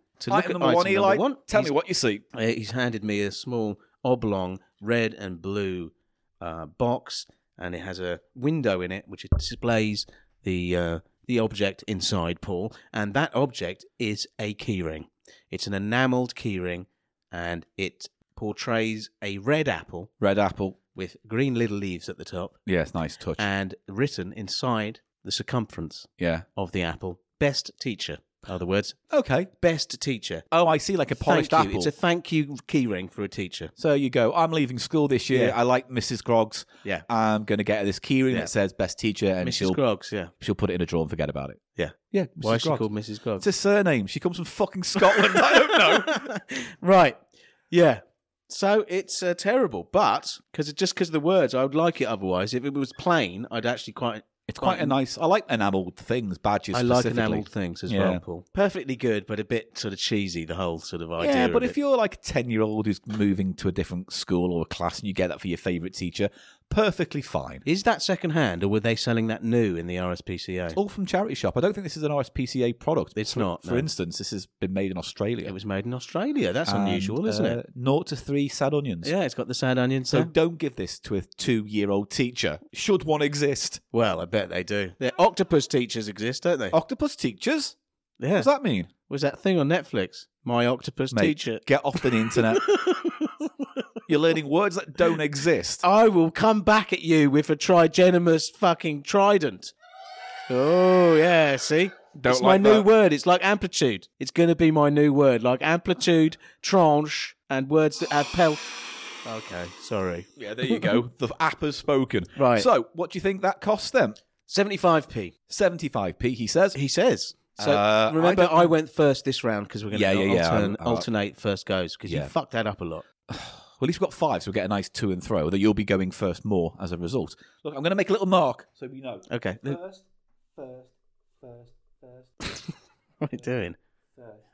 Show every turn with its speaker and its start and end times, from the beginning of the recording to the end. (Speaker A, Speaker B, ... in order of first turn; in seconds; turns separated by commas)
Speaker A: 0.2-1.7, Speaker B: 0.3-2.2, Speaker A: 2.3-20.1, Speaker B: 20.2-20.8, Speaker A: 20.9-22.6, Speaker B: 22.6-23.4, Speaker A: 23.4-29.0, Speaker B: 26.2-26.4, Speaker B: 29.1-29.5, Speaker A: 29.6-30.4, Speaker B: 30.5-31.9, Speaker A: 31.1-33.7, Speaker B: 33.8-39.8, Speaker A: 35.3-35.5, Speaker A: 39.4-40.3, Speaker B: 40.4-42.9, Speaker A: 41.8-43.5, Speaker B: 43.4-46.3, Speaker A: 44.9-54.9, Speaker B: 54.5-58.2, Speaker A: 56.7-61.8, Speaker B: 61.2-67.6, Speaker A: 67.6-70.8, Speaker B: 70.7-75.5, Speaker A: 73.2-73.9, Speaker A: 75.4-77.6, Speaker B: 76.7-79.1, Speaker A: 79.0-80.3, Speaker B: 80.1-83.8, Speaker A: 83.9-86.7, Speaker B: 86.7-87.8, Speaker A: 88.2-88.5, Speaker B: 88.4-88.9, Speaker A: 89.1-93.7, Speaker B: 91.1-92.6, Speaker B: 94.1-95.8, Speaker A: 95.8-99.7, Speaker A: 100.5-108.6, Speaker B: 102.2-102.9, Speaker A: 109.2-110.9, Speaker B: 110.4-114.2, Speaker A: 112.3-112.7, Speaker A: 114.5-115.3, Speaker B: 115.5-116.8, Speaker A: 116.7-123.0, Speaker B: 117.6-118.7, Speaker B: 119.9-121.1, Speaker B: 123.3-132.3, Speaker A: 129.3-129.8, Speaker A: 132.4-132.7, Speaker A: 133.2-133.8